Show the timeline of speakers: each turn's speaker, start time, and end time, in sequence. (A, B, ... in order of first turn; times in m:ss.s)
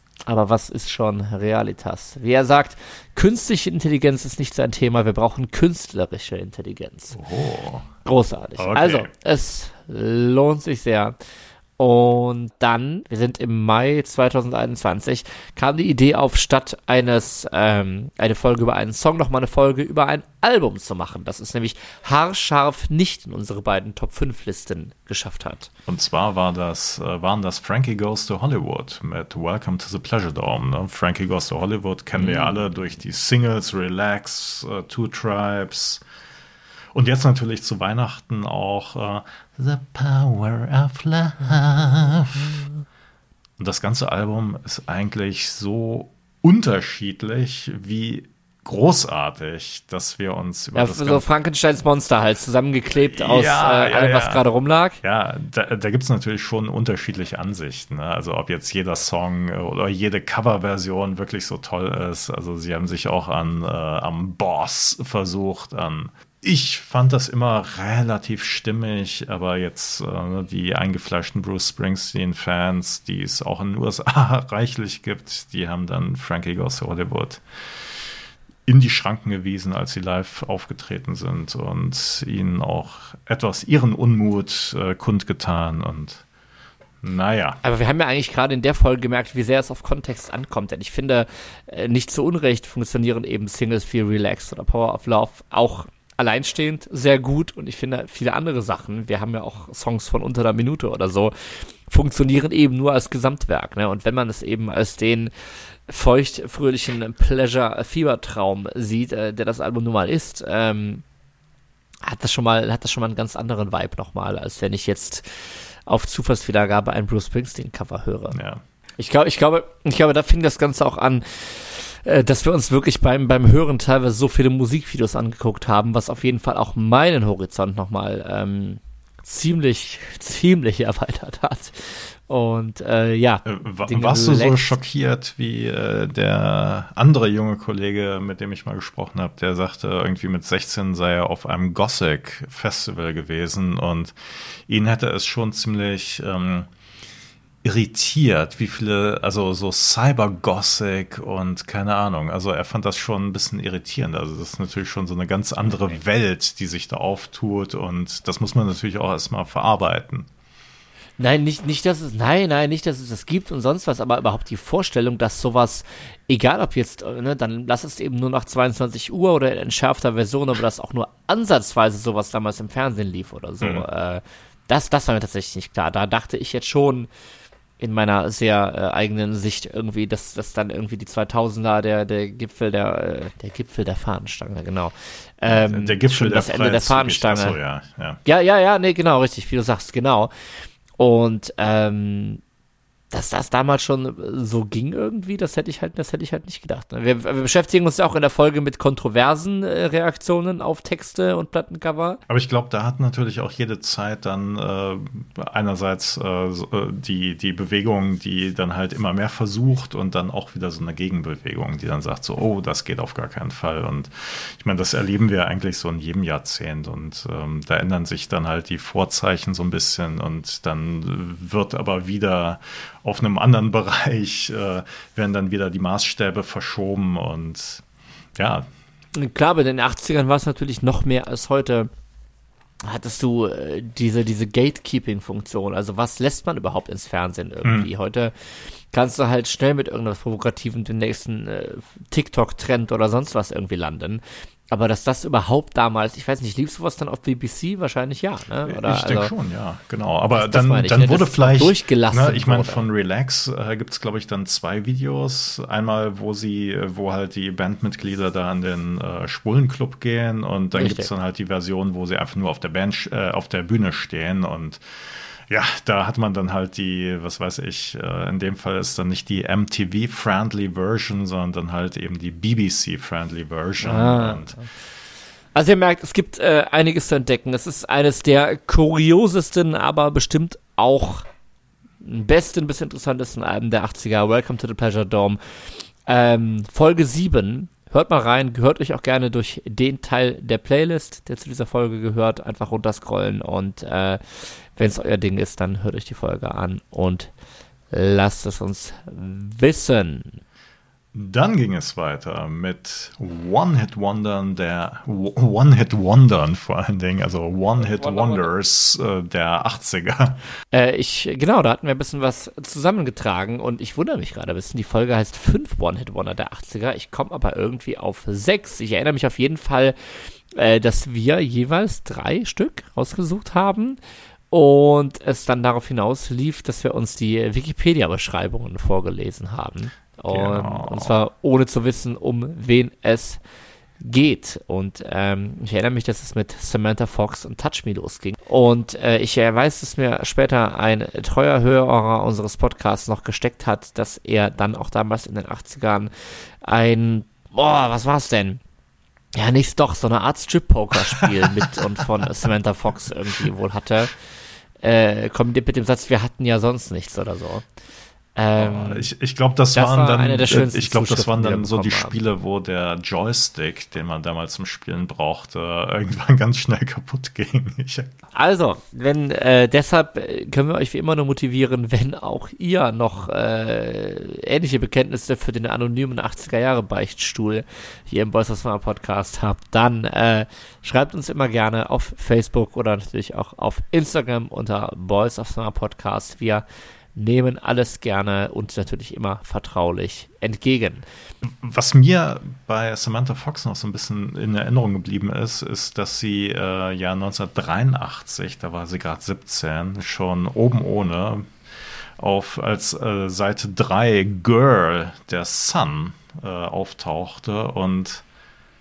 0:00.2-0:07.2 A
0:07.1-0:07.9 B
0:08.0-0:11.1 A
0:08.6-0:09.1 B
0:11.8-0:25.7 A
0:25.9-0:36.0 B
0:32.1-0:32.6 A
0:36.9-0:42.7 B
0:43.6-0:51.2 B
0:50.7-0:55.0 A
0:53.1-0:54.4 B
0:55.0-1:17.4 B
1:18.7-1:26.2 B
1:27.0-1:27.6 B
1:27.6-1:45.3 A
1:45.9-1:51.0 A
1:52.0-1:58.3 A
1:58.3-1:58.6 B
1:59.0-2:14.8 A
2:13.4-2:26.7 B
2:27.6-2:40.3 B
2:41.2-2:57.1 A
2:57.8-3:07.6 A
3:05.5-3:08.2 B
3:08.2-3:10.3 A
3:11.0-3:12.4 A
3:13.1-3:22.2 A
3:22.3-3:47.8 B
3:48.4-3:48.7 B
3:49.1-3:51.9 A
3:52.8-4:09.3 A
4:08.6-4:24.8 B
4:10.3-4:12.8 A
4:20.7-4:21.1 A
4:25.5-4:34.6 B
4:33.8-4:34.6 A
4:35.5-4:41.3 A
4:42.0-4:45.4 A
4:46.0-4:57.3 A
4:57.9-5:00.4 A
5:01.1-5:10.4 B
5:07.8-5:08.5 A
5:10.7-5:24.0 A
5:24.5-5:33.4 A
5:30.3-5:31.2 B
5:34.0-5:48.6 A
5:49.3-5:54.1 A
5:51.2-5:51.4 B
5:54.8-5:57.6 A
5:58.3-5:59.1 A
5:58.6-6:08.1 B
5:59.8-6:02.2 A
6:08.3-6:31.0 A
6:31.4-6:41.5 B
6:42.2-6:48.2 B